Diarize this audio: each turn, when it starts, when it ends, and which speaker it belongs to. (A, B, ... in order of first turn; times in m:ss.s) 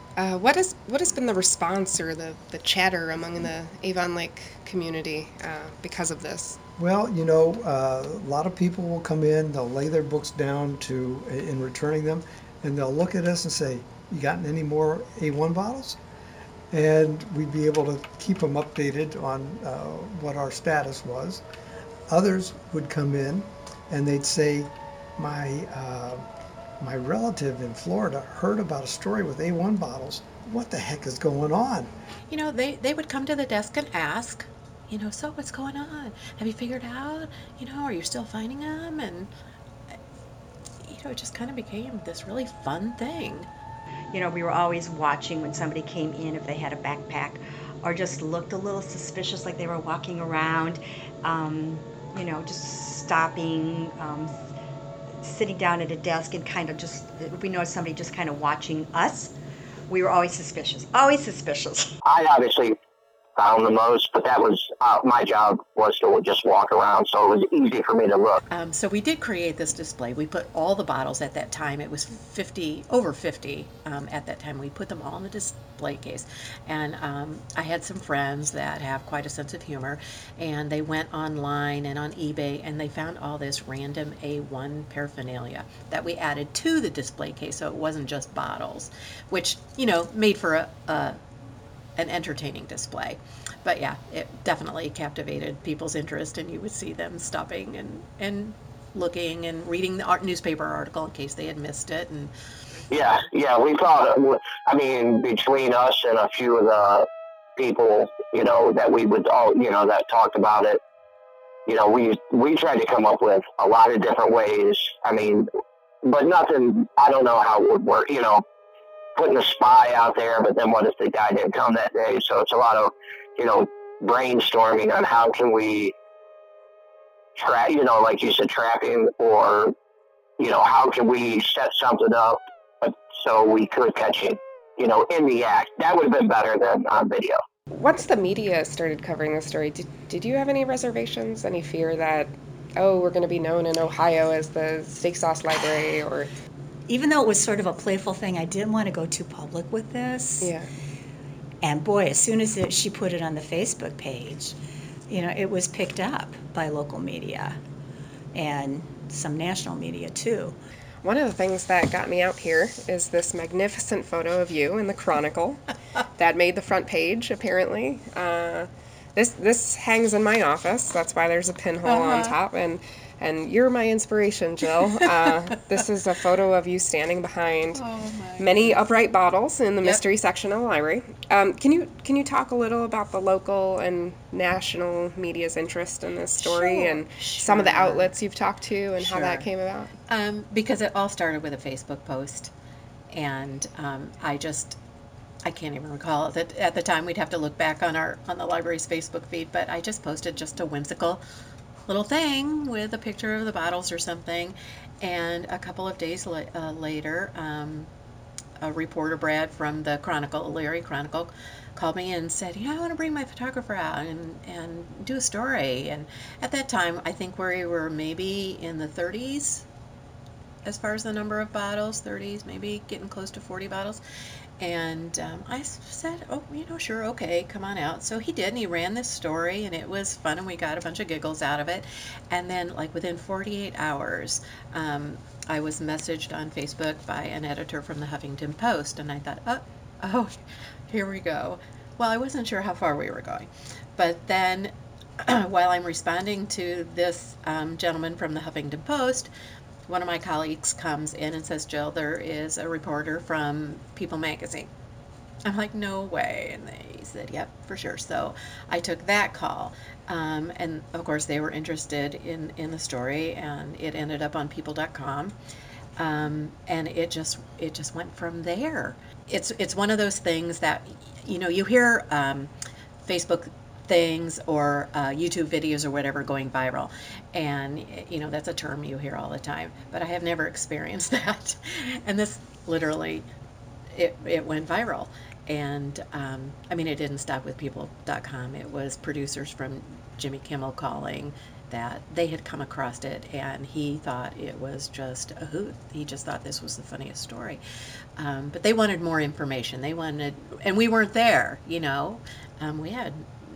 0:00.2-0:06.6 A
0:06.8-0:16.0 B
0:16.7-0:21.4 B
0:22.1-0:26.3 B
0:26.8-0:31.9 B
0:32.3-0:39.3 C
0:40.8-0:43.5 C
0:44.1-0:54.3 D
0:55.2-0:59.3 D
0:59.9-1:01.9 D
1:02.0-1:02.8 E
1:03.4-1:08.4 E
1:08.5-1:31.2 C
1:32.0-1:42.3 C
1:42.9-1:50.8 E
1:51.6-1:55.5 E
1:56.0-1:58.4 E
1:59.2-2:05.9 E
2:07.4-2:09.7 E
2:10.4-2:17.4 E
2:17.7-2:26.3 A
2:26.9-2:30.5 F
2:30.4-2:30.7 A
2:31.6-2:34.6 F
2:35.1-2:37.6 F
2:38.3-2:40.6 F
2:41.0-2:45.6 A
2:46.2-2:57.8 A
2:51.8-2:52.4 C
2:57.7-2:58.8 C
2:58.4-3:09.9 A
3:06.4-3:08.1 C
3:09.0-3:09.5 C
3:10.1-3:12.5 C
3:13.1-3:14.8 C
3:15.4-3:21.2 C
3:21.9-3:27.9 C
3:28.6-3:39.6 C
3:40.6-3:44.0 C
3:44.6-4:09.3 C
4:09.9-4:14.7 C
4:15.4-4:25.3 C
4:26.0-4:32.5 C
4:33.0-4:43.2 C
4:43.9-4:57.6 C
4:58.2-5:03.3 C